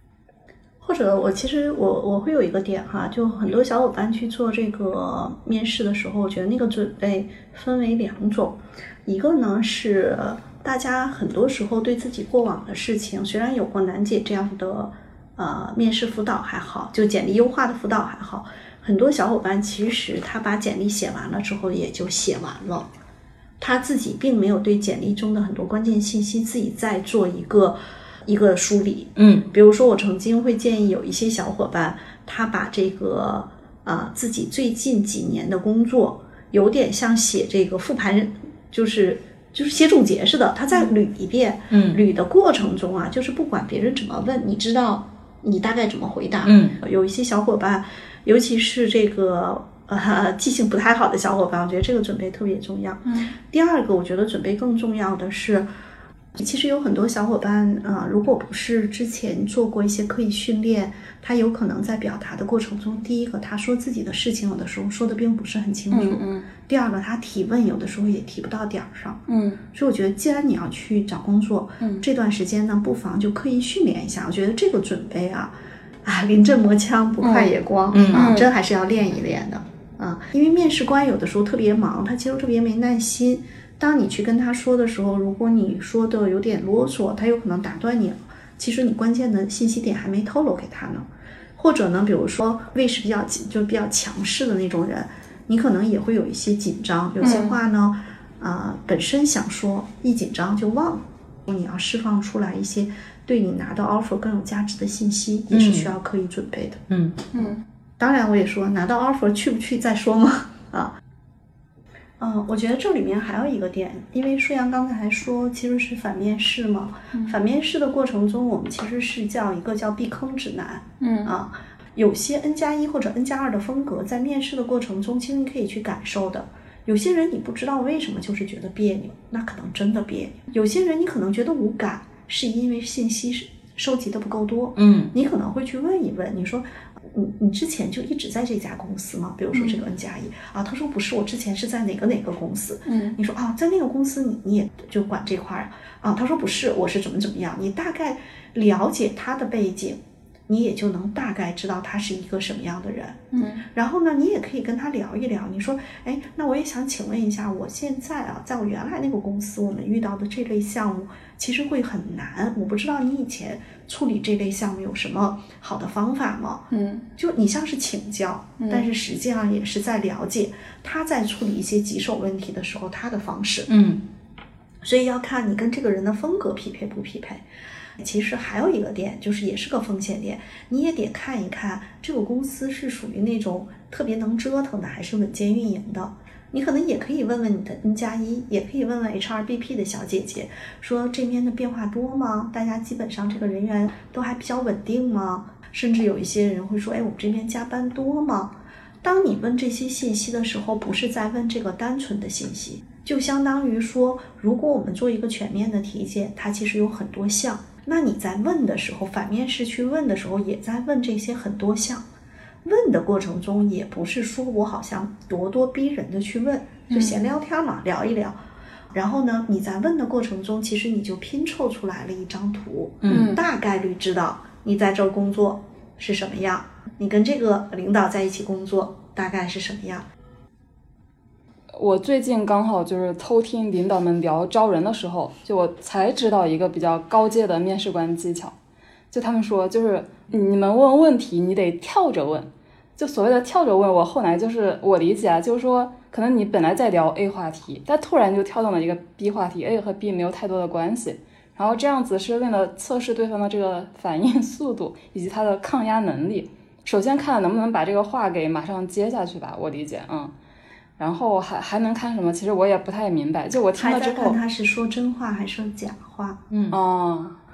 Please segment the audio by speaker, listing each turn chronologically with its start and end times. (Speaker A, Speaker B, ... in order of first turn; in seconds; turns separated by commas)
Speaker A: 0.8-22.9, Speaker A: 23.6-55.7, Speaker B: 29.1-29.5, Speaker B: 41.7-42.0, Speaker B: 46.4-46.8, Speaker C: 53.1-53.3, Speaker A: 56.4-69.2, Speaker C: 65.9-66.5, Speaker C: 69.3-69.6, Speaker A: 69.7-75.5, Speaker A: 76.0-91.0, Speaker C: 77.2-77.6, Speaker B: 77.9-78.4, Speaker C: 78.1-78.5, Speaker A: 91.6-106.8, Speaker C: 97.2-97.6, Speaker B: 105.5-105.9, Speaker B: 106.9-107.2, Speaker C: 107.3-107.6, Speaker A: 108.0-110.9, Speaker A: 112.2-153.2, Speaker C: 121.0-121.3, Speaker B: 134.8-135.1, Speaker C: 139.5-139.8, Speaker C: 142.9-143.2, Speaker C: 153.3-153.6, Speaker A: 153.7-173.7, Speaker C: 166.7-167.1, Speaker C: 168.6-168.8, Speaker B: 173.7-174.0, Speaker A: 174.8-177.4, Speaker A: 178.0-212.0, Speaker A: 212.6-218.3, Speaker C: 216.9-217.2, Speaker A: 218.9-230.1, Speaker B: 223.0-223.3, Speaker C: 223.1-223.4, Speaker C: 231.7-238.5, Speaker C: 239.1-260.3, Speaker C: 261.0-264.4, Speaker A: 263.8-266.4, Speaker B: 266.5-266.8, Speaker C: 266.7-267.4